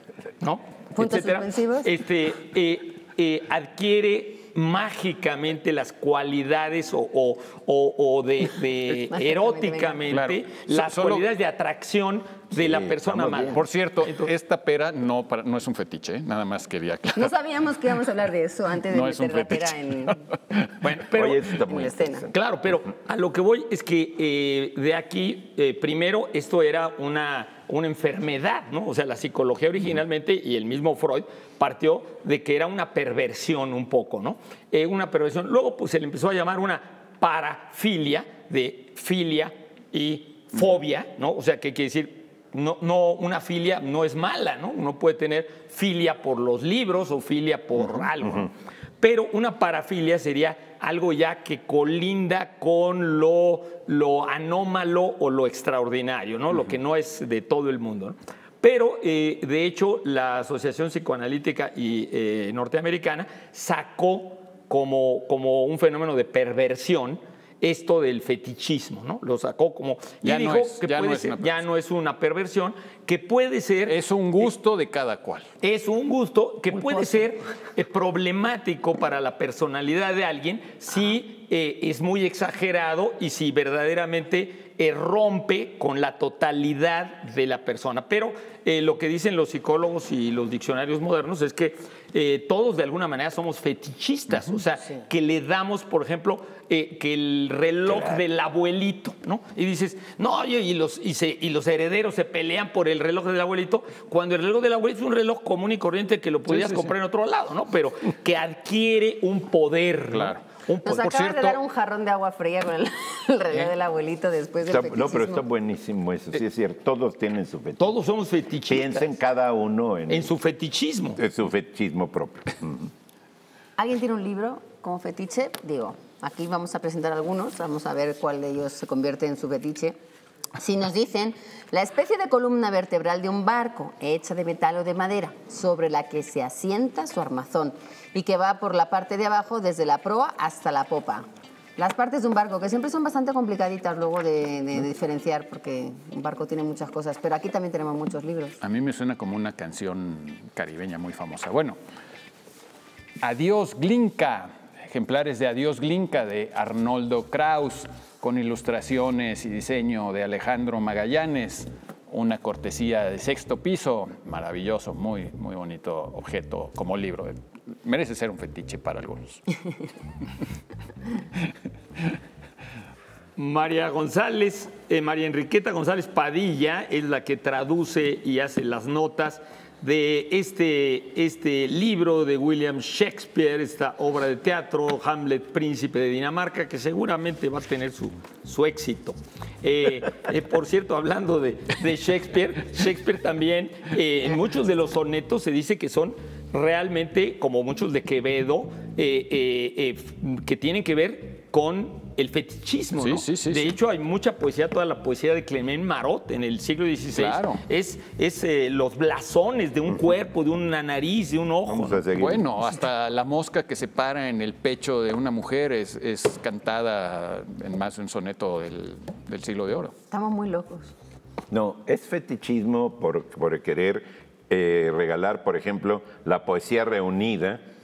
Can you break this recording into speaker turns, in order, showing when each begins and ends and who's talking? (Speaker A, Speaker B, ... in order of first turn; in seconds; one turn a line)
Speaker A: 0.4-14.3
Speaker B: 0.9-1.9
Speaker B: 9.1-10.0
Speaker C: 10.1-11.3
Speaker D: 12.6-13.6
Speaker C: 13.5-17.3
Speaker B: 17.1-20.2
Speaker C: 18.9-19.8
Speaker A: 20.8-21.6
Speaker D: 21.1-22.4
Speaker B: 21.6-22.2
Speaker A: 22.3-74.5
Speaker C: 70.2-71.5
Speaker C: 73.8-75.5
Speaker A: 75.6-111.5
Speaker D: 97.9-98.2
Speaker C: 106.5-106.9
Speaker C: 110.1-110.4
Speaker B: 110.8-115.4
Speaker C: 111.0-111.3
Speaker D: 114.7-117.9
Speaker A: 117.8-119.1
Speaker D: 118.7-120.3
Speaker A: 120.1-121.2
Speaker D: 121.2-122.9
Speaker B: 123.8-130.0
Speaker B: 130.6-141.2
Speaker B: 141.8-148.6
Speaker C: 148.6-151.8
Speaker C: 153.2-169.5
Speaker A: 173.4-212.0
Speaker C: 203.0-203.7
Speaker C: 207.1-207.6
Speaker D: 211.7-212.5
Speaker C: 212.1-219.9
Speaker B: 220.1-220.9
Speaker D: 221.5-227.6